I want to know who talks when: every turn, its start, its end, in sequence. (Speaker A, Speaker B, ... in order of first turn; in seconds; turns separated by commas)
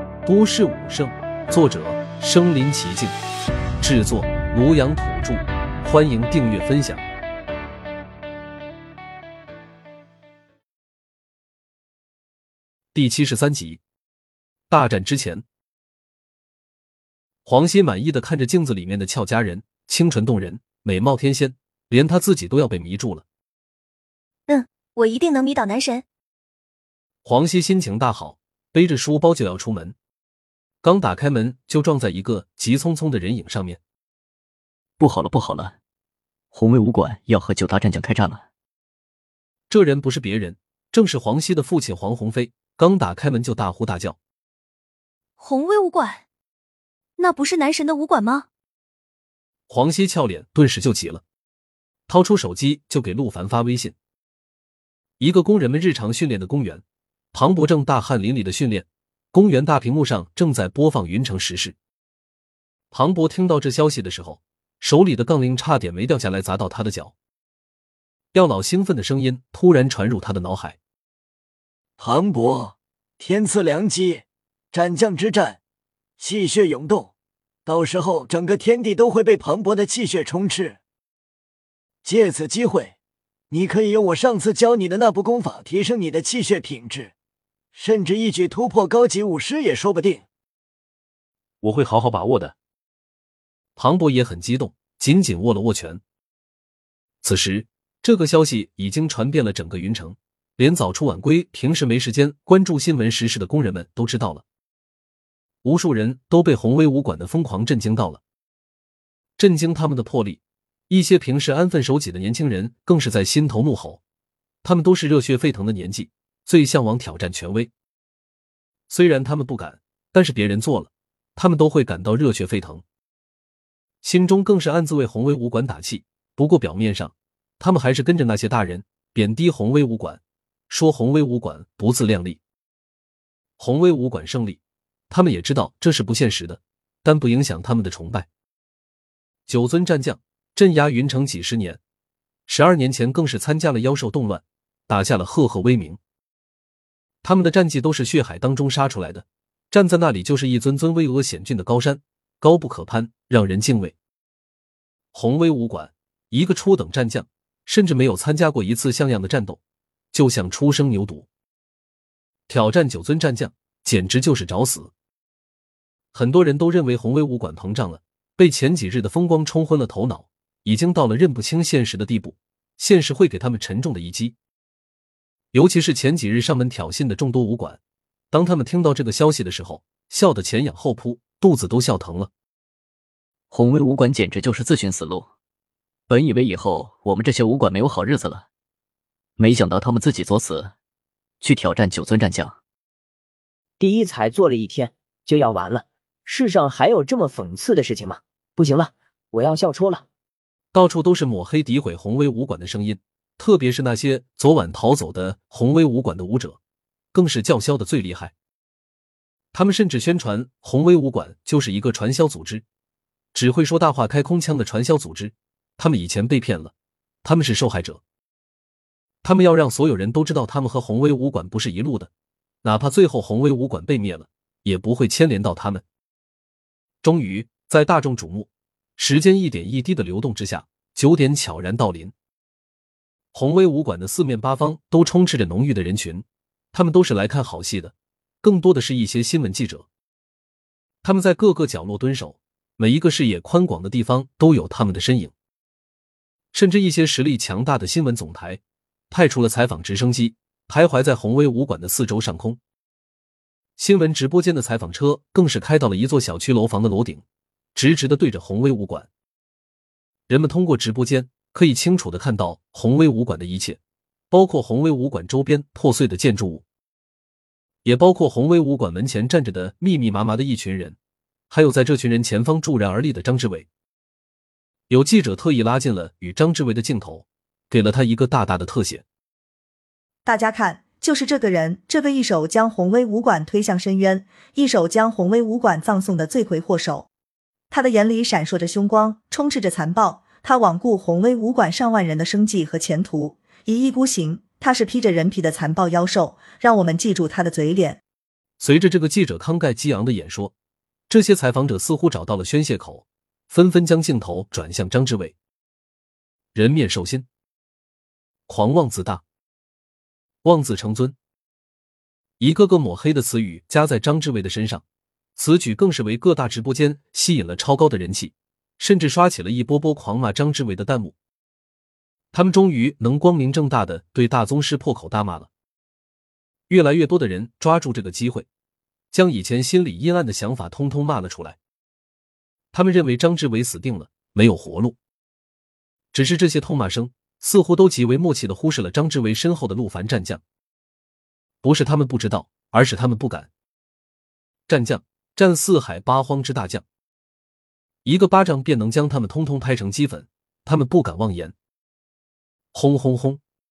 Speaker A: 0.2-3.2, Speaker A: 3.8-7.0, Speaker A: 12.9-13.8, Speaker A: 14.7-15.4, Speaker A: 17.4-23.2, Speaker B: 24.5-26.0, Speaker A: 27.2-29.9, Speaker A: 30.8-33.8, Speaker C: 35.0-35.8, Speaker C: 36.5-38.4, Speaker A: 39.7-44.2, Speaker B: 45.4-46.2, Speaker B: 47.2-48.5, Speaker A: 49.7-51.2, Speaker A: 52.1-54.0, Speaker A: 55.2-61.8, Speaker A: 62.9-67.1, Speaker A: 68.3-70.8, Speaker D: 72.0-75.6, Speaker D: 76.2-77.1, Speaker D: 77.7-80.8, Speaker D: 82.0-83.0, Speaker D: 83.5-87.1, Speaker D: 87.7-90.3, Speaker A: 91.6-92.5, Speaker A: 93.8-96.0, Speaker A: 97.2-104.4, Speaker A: 105.6-108.2, Speaker A: 109.4-114.0, Speaker A: 114.6-117.7, Speaker A: 118.9-122.8, Speaker A: 124.0-132.4, Speaker A: 133.6-138.3, Speaker A: 139.5-141.8, Speaker A: 142.5-146.0, Speaker A: 147.2-153.9, Speaker A: 155.1-159.6, Speaker A: 160.1-161.3, Speaker A: 162.5-164.9, Speaker A: 166.1-174.3, Speaker A: 175.5-177.8, Speaker A: 178.3-182.3, Speaker C: 183.5-185.3, Speaker C: 186.1-188.5, Speaker C: 189.4-190.7, Speaker C: 191.4-192.6, Speaker E: 193.8-200.1, Speaker A: 200.7-206.6, Speaker A: 207.1-208.3, Speaker A: 209.5-212.6, Speaker A: 213.3-218.0, Speaker A: 219.2-222.1, Speaker A: 222.6-225.8, Speaker A: 227.0-232.1, Speaker A: 233.3-239.9, Speaker A: 241.0-245.3, Speaker A: 246.5-252.6, Speaker A: 253.8-257.2, Speaker A: 257.8-259.1, Speaker A: 260.3-263.8, Speaker A: 264.3-266.6, Speaker A: 267.8-271.0, Speaker A: 271.5-273.7, Speaker A: 274.9-279.0, Speaker F: 280.2-287.1, Speaker F: 287.7-298.0, Speaker A: 298.6-300.5, Speaker A: 301.1-305.4, Speaker A: 306.5-307.2, Speaker A: 308.5-309.2, Speaker A: 310.4-311.1, Speaker A: 312.4-314.8, Speaker A: 315.4-321.1, Speaker A: 322.3-325.5, Speaker A: 326.7-328.5, Speaker A: 329.1-331.6, Speaker A: 332.7-335.0, Speaker A: 336.1-340.4, Speaker A: 341.6-343.5, Speaker A: 344.7-346.8, Speaker A: 348.1-351.6, Speaker A: 352.7-353.4